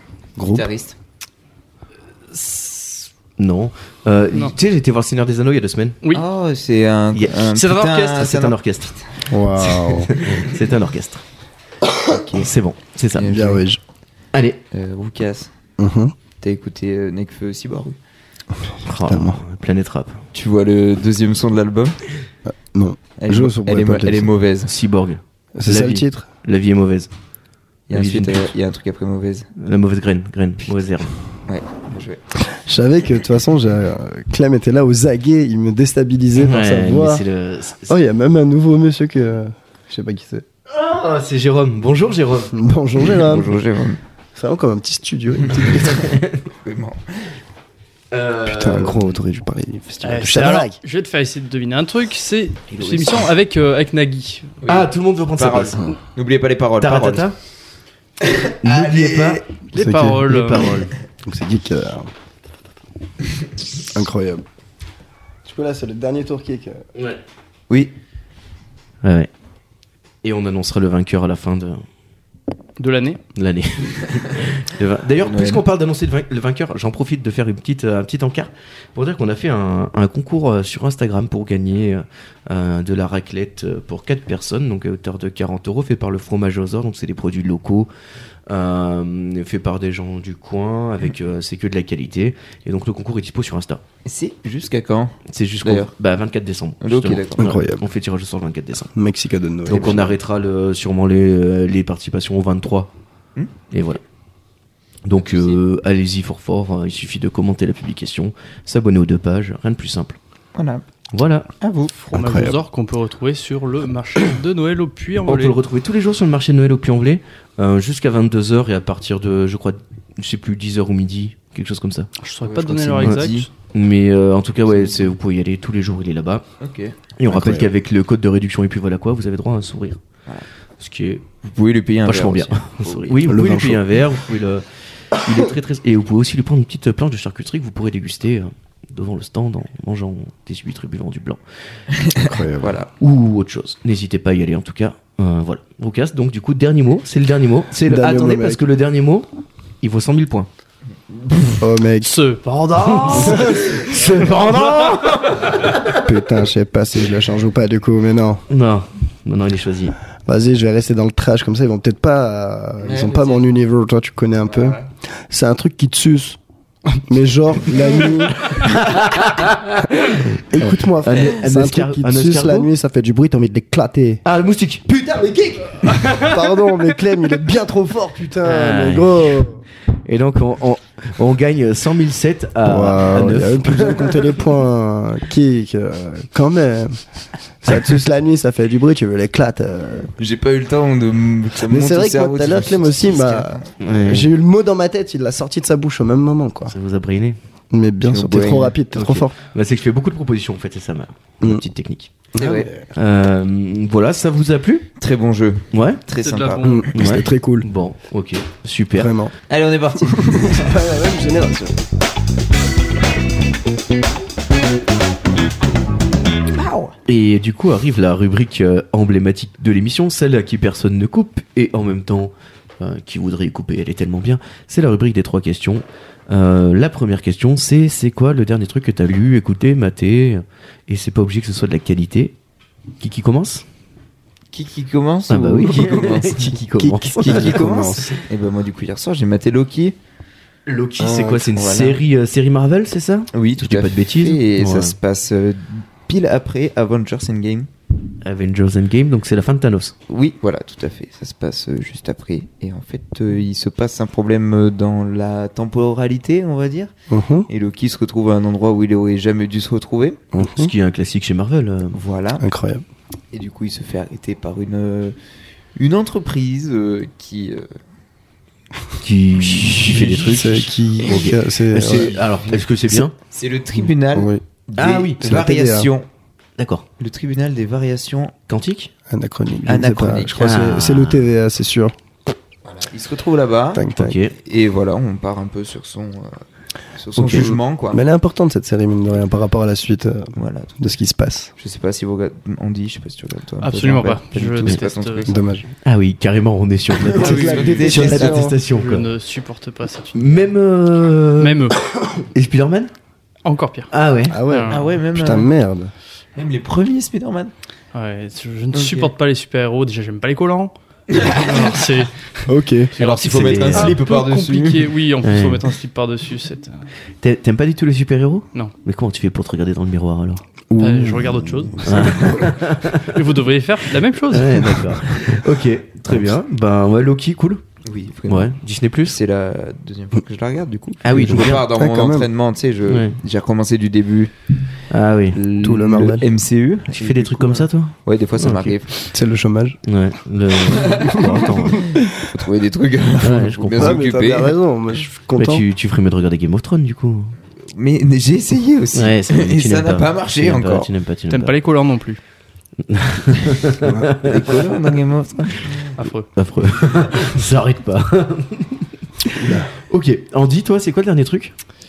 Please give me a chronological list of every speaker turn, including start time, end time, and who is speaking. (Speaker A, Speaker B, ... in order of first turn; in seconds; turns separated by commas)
Speaker A: 0.4-0.7, Speaker B: 0.4-0.9, Speaker C: 2.3-3.1, Speaker D: 3.4-6.0, Speaker B: 6.1-9.2, Speaker D: 7.1-7.4, Speaker C: 7.5-8.3, Speaker D: 8.2-8.9, Speaker A: 9.3-10.1, Speaker B: 9.9-10.5, Speaker D: 10.0-11.2, Speaker B: 12.1-12.5, Speaker D: 12.3-13.4, Speaker B: 13.1-13.6, Speaker A: 13.3-13.8, Speaker B: 14.7-15.5, Speaker A: 15.8-16.1, Speaker B: 16.4-17.9, Speaker D: 18.8-20.2, Speaker A: 19.0-19.4, Speaker B: 20.3-22.0, Speaker A: 22.5-24.3, Speaker B: 23.2-24.7, Speaker D: 24.6-27.1, Speaker A: 25.5-26.2, Speaker B: 27.9-29.5, Speaker D: 27.9-28.5, Speaker D: 29.6-31.1, Speaker B: 31.5-32.2, Speaker A: 32.4-37.2, Speaker D: 36.4-37.9, Speaker A: 37.9-40.4, Speaker D: 40.7-42.5, Speaker A: 42.5-43.5, Speaker B: 43.0-44.0, Speaker A: 44.4-46.0, Speaker B: 45.4-47.3, Speaker D: 45.7-46.5, Speaker D: 48.1-49.2, Speaker A: 48.5-50.8, Speaker C: 50.0-54.5, Speaker D: 52.7-53.2, Speaker B: 54.6-57.2, Speaker D: 54.6-55.8, Speaker D: 56.8-57.3, Speaker B: 58.2-59.4, Speaker D: 58.6-59.4, Speaker C: 59.7-60.8, Speaker A: 59.7-60.7, Speaker D: 60.3-60.9, Speaker A: 61.2-62.1, Speaker A: 63.9-64.4, Speaker A: 65.4-66.8, Speaker D: 66.9-67.2, Speaker D: 69.0-69.3, Speaker D: 70.2-71.8, Speaker C: 72.8-73.2, Speaker D: 73.3-87.9, Speaker B: 75.2-75.6, Speaker D: 88.5-93.8, Speaker B: 94.0-95.9, Speaker D: 95.3-98.9, Speaker B: 96.8-97.5, Speaker A: 97.4-97.8, Speaker A: 98.9-100.0, Speaker D: 99.7-102.9, Speaker B: 99.7-100.0, Speaker D: 103.7-104.0, Speaker D: 105.0-110.2, Speaker B: 105.2-105.6, Speaker B: 110.5-110.8, Speaker D: 111.1-111.5, Speaker B: 111.6-111.9, Speaker C: 112.0-115.6, Speaker A: 112.1-112.6, Speaker D: 115.2-122.1, Speaker C: 122.2-123.5, Speaker B: 122.4-123.5, Speaker D: 123.7-126.4, Speaker B: 126.6-126.9, Speaker D: 127.2-130.0, Speaker A: 127.3-127.7, Speaker D: 130.8-131.3, Speaker B: 131.4-133.3, Speaker D: 132.0-141.4, Speaker A: 133.3-133.8, Speaker B: 141.9-142.9, Speaker A: 142.2-142.8, Speaker D: 143.0-149.2, Speaker A: 147.8-148.6, Speaker D: 149.8-150.5, Speaker B: 151.1-151.6, Speaker A: 151.6-152.1, Speaker C: 152.0-154.0, Speaker D: 152.8-156.0, Speaker A: 153.2-153.6, Speaker B: 153.8-154.4, Speaker C: 154.6-154.9, Speaker A: 156.0-158.4, Speaker D: 158.5-159.9, Speaker A: 160.2-164.8, Speaker B: 162.8-163.5, Speaker B: 164.5-164.8, Speaker A: 165.3-166.4, Speaker A: 166.9-168.8, Speaker D: 168.5-172.7, Speaker A: 170.5-174.2, Speaker D: 174.2-176.0, Speaker A: 175.7-179.6, Speaker C: 175.9-176.4, Speaker D: 178.4-184.3, Speaker A: 182.6-187.0, Speaker A: 187.6-190.1, Speaker B: 190.2-193.8, Speaker A: 191.7-196.7, Speaker D: 193.8-194.3, Speaker D: 196.7-197.4, Speaker A: 197.7-199.3, Speaker B: 198.0-198.7, Speaker D: 198.9-202.1, Speaker B: 202.3-202.7, Speaker A: 202.3-202.8, Speaker D: 202.9-204.9, Speaker B: 205.0-206.9, Speaker D: 205.7-206.0, Speaker C: 206.2-206.8, Speaker A: 206.6-207.7, Speaker D: 206.9-209.1, Speaker A: 208.9-209.3, Speaker B: 209.5-210.8, Speaker A: 210.1-211.8, Speaker B: 216.5-216.9, Speaker D: 217.1-232.3, Speaker D: 233.0-233.6, Speaker B: 234.5-236.6, Speaker D: 235.3-237.6, Speaker A: 236.8-238.2, Speaker B: 237.2-239.9, Speaker D: 240.7-244.9, Speaker A: 241.0-241.5, Speaker B: 241.5-242.0, Speaker B: 243.3-247.7, Speaker D: 248.2-249.9, Speaker B: 250.1-256.9, Speaker A: 257.1-257.5, Speaker B: 257.5-260.2, Speaker A: 260.3-260.7, Speaker D: 260.4-262.0, Speaker B: 261.9-262.4, Speaker A: 262.4-262.8, Speaker B: 263.3-265.1, Speaker B: 265.8-267.7, Speaker D: 269.0-273.1, Speaker B: 269.5-272.7, Speaker A: 270.2-272.1, Speaker B: 273.2-276.1, Speaker A: 274.1-274.4, Speaker D: 274.8-275.3, Speaker A: 275.2-275.9, Speaker D: 276.6-276.8, Speaker B: 277.0-278.3, Speaker D: 278.5-278.9, Speaker A: 279.1-281.9, Speaker B: 279.6-280.5, Speaker D: 280.4-281.3, Speaker B: 282.6-286.4, Speaker A: 283.7-284.2, Speaker D: 283.9-284.3, Speaker B: 286.9-288.0, Speaker D: 287.1-287.5, Speaker A: 287.3-291.5, Speaker B: 290.4-290.8, Speaker B: 291.6-295.4, Speaker C: 293.6-295.3, Speaker A: 295.3-295.6, Speaker D: 295.8-299.1, Speaker B: 297.0-298.6, Speaker A: 297.1-298.6, Speaker C: 297.2-298.1, Speaker C: 298.6-300.5, Speaker D: 300.1-301.6, Speaker C: 301.4-301.8, Speaker D: 302.3-302.9, Speaker C: 303.4-303.9, Speaker D: 303.9-304.4, Speaker A: 304.3-305.9, Speaker C: 304.5-304.8, Speaker B: 304.7-305.5, Speaker B: 306.3-307.5, Speaker C: 307.9-316.9, Speaker B: 308.7-309.1, Speaker B: 311.1-311.7, Speaker A: 312.5-312.9, Speaker B: 313.0-315.0, Speaker D: 313.3-314.0, Speaker D: 315.2-315.6, Speaker D: 317.2-320.4, Speaker A: 320.7-322.1, Speaker C: 320.8-324.9, Speaker D: 321.8-323.2, Speaker D: 324.3-327.6, Speaker B: 327.8-328.5, Speaker D: 328.3-329.2, Speaker B: 329.1-334.3, Speaker D: 331.0-331.7, Speaker A: 331.2-332.3, Speaker D: 332.9-333.1, Speaker D: 334.9-335.4, Speaker B: 335.3-339.0, Speaker A: 335.6-336.2, Speaker D: 336.9-338.7, Speaker A: 339.1-339.8, Speaker D: 339.9-341.9, Speaker B: 340.7-344.5, Speaker A: 341.2-342.0, Speaker D: 343.2-344.0, Speaker A: 343.8-345.6, Speaker D: 345.4-347.3, Speaker B: 347.7-350.9, Speaker D: 348.9-351.5, Speaker C: 351.3-352.2, Speaker D: 352.9-354.6, Speaker A: 353.8-354.1, Speaker B: 354.2-355.9, Speaker C: 356.0-356.3, Speaker D: 356.3-361.5, Speaker A: 359.4-359.7